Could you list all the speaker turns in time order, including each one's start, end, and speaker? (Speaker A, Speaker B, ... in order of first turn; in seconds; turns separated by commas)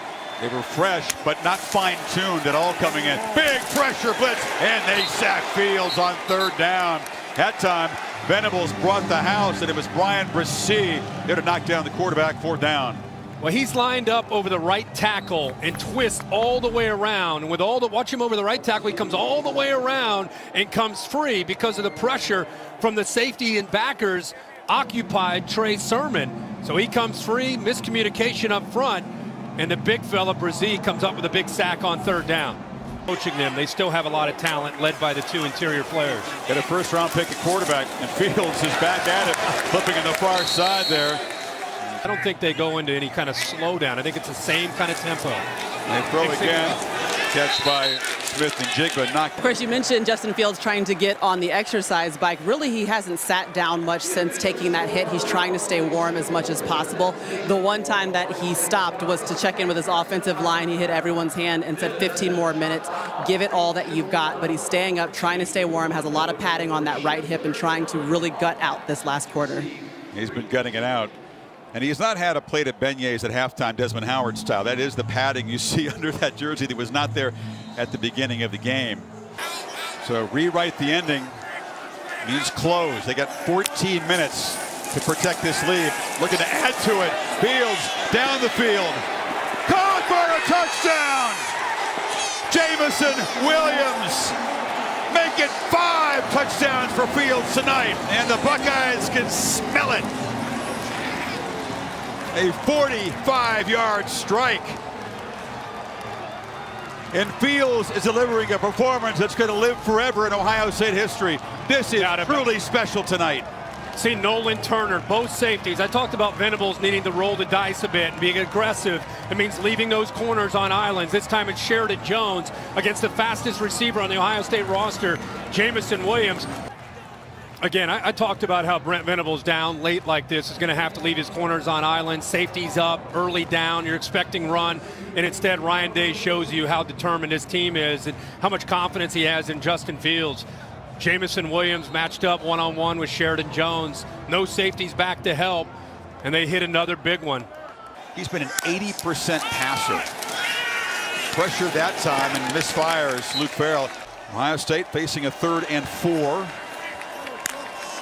Speaker A: 0.4-13.0, Speaker B: 13.4-29.1, Speaker B: 29.6-36.4, Speaker A: 36.5-41.2, Speaker B: 42.1-45.5, Speaker A: 45.9-49.4, Speaker B: 46.2-46.8, Speaker C: 49.4-69.7, Speaker A: 70.1-71.2, Speaker A: 71.7-79.1, Speaker A: 80.0-81.4, Speaker A: 82.2-89.0, Speaker A: 89.7-91.5, Speaker A: 92.5-94.4, Speaker A: 95.1-100.1, Speaker A: 102.3-104.8, Speaker A: 107.1-113.5, Speaker B: 112.0-112.5, Speaker B: 114.0-126.5, Speaker B: 127.6-140.5, Speaker B: 141.0-145.7, Speaker B: 146.2-147.5, Speaker A: 148.2-150.1, Speaker A: 151.3-156.6